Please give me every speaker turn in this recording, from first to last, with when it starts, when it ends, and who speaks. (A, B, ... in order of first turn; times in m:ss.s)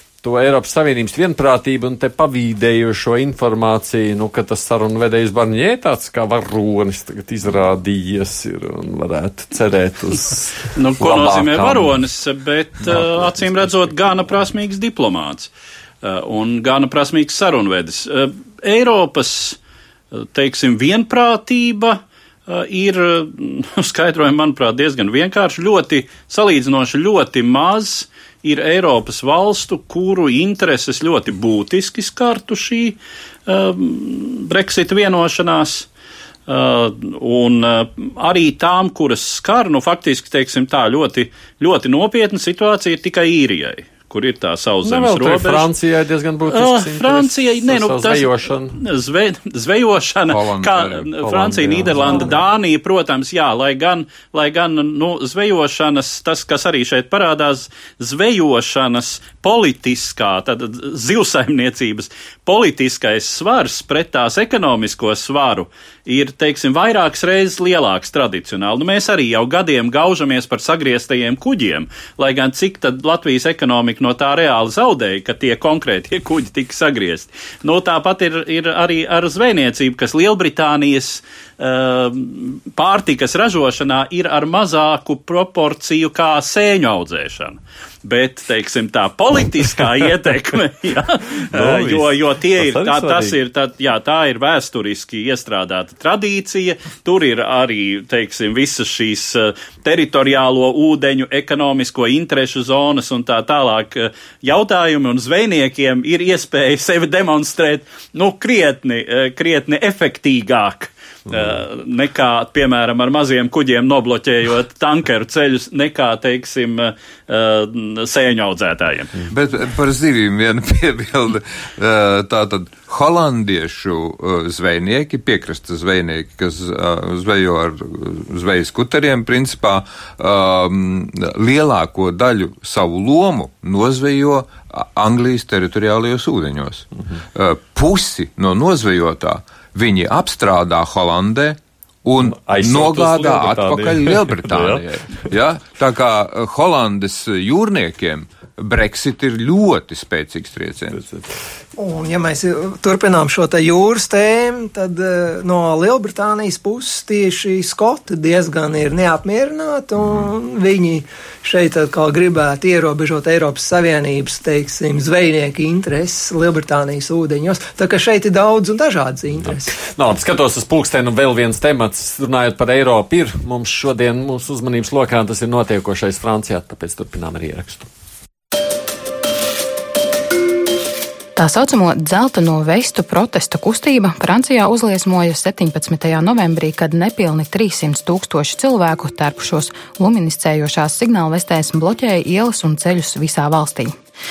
0:00.2-0:11.9 A
0:10.7-0:15.5 B
0:12.8-0:13.7 A
0:16.0-0:19.6 B
0:20.1-0:35.9 B
0:36.5-0:45.7 B
0:44.8-0:48.8 A
0:46.5-1:59.2 B
0:50.3-0:51.1 C
0:51.2-0:52.4 A
1:31.5-1:33.4 A
1:59.3-2:31.0 C
2:22.2-2:24.8 A
2:30.9-2:31.3 A
2:31.8-2:49.8 D
2:49.5-2:57.9 A
3:01.4-3:13.9 E